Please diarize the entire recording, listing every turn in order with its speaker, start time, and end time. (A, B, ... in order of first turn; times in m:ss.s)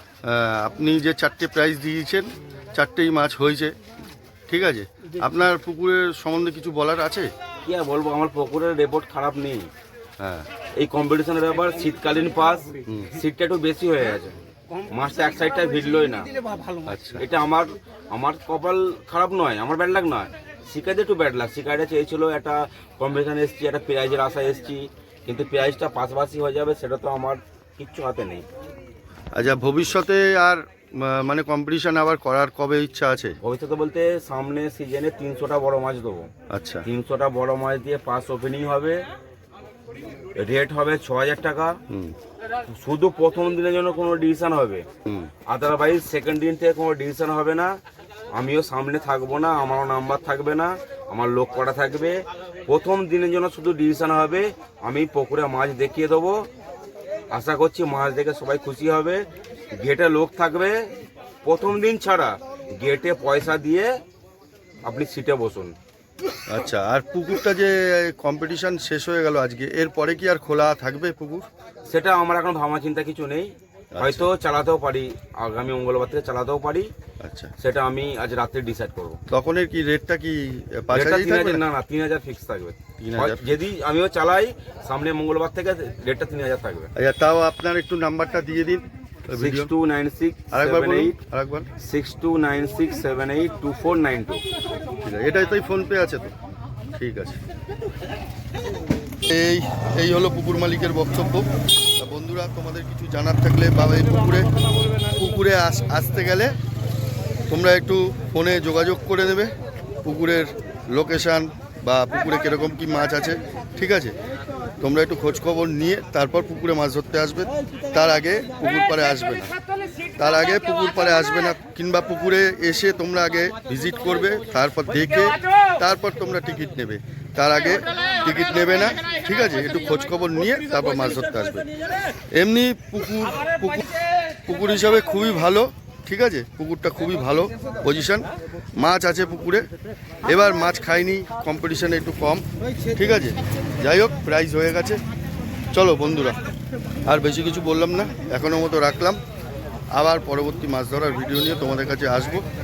0:00.2-0:03.7 A
0:04.5-0:07.3 A
0:07.6-0:09.7 B
0:10.2-0:10.5 A
0:10.8-0:16.3 B
0:12.8-0:13.1 A
0:16.8-0:17.2 A
0:17.2-0:28.4 B
0:29.3-0:33.4 A
0:33.4-0:36.3 B
0:36.5-0:36.8 A
0:36.8-0:39.0 B
0:40.4-0:41.8 B
0:41.9-0:42.2 A
0:42.7-0:44.9 B
0:45.0-0:45.3 A
0:45.5-0:47.8 B
0:48.3-0:56.5 B
0:57.3-1:00.9 B
1:01.4-1:03.9 B
1:04.8-1:05.7 B
1:06.5-1:11.5 A
1:11.9-1:16.9 B
1:13.9-1:14.3 A
1:17.2-1:17.5 A
1:17.6-1:19.2 B
1:19.3-1:21.6 A
1:20.9-1:26.9 B
1:23.0-1:23.4 A
1:27.0-1:29.7 A
1:29.3-1:31.2 B
1:30.5-1:31.7 A
1:31.8-1:34.4 B
1:35.0-1:36.3 A
1:36.9-1:37.4 A
1:39.2-1:44.5 A
1:45.1-1:46.6 A
1:47.5-1:49.5 A
1:50.0-1:54.1 A
1:54.8-1:59.5 A
2:00.2-2:11.7 A
2:12.3-2:13.9 A
2:14.4-2:19.7 A
2:20.2-2:25.0 A
2:25.7-2:26.4 A
2:27.0-2:29.2 A
2:29.9-2:32.4 A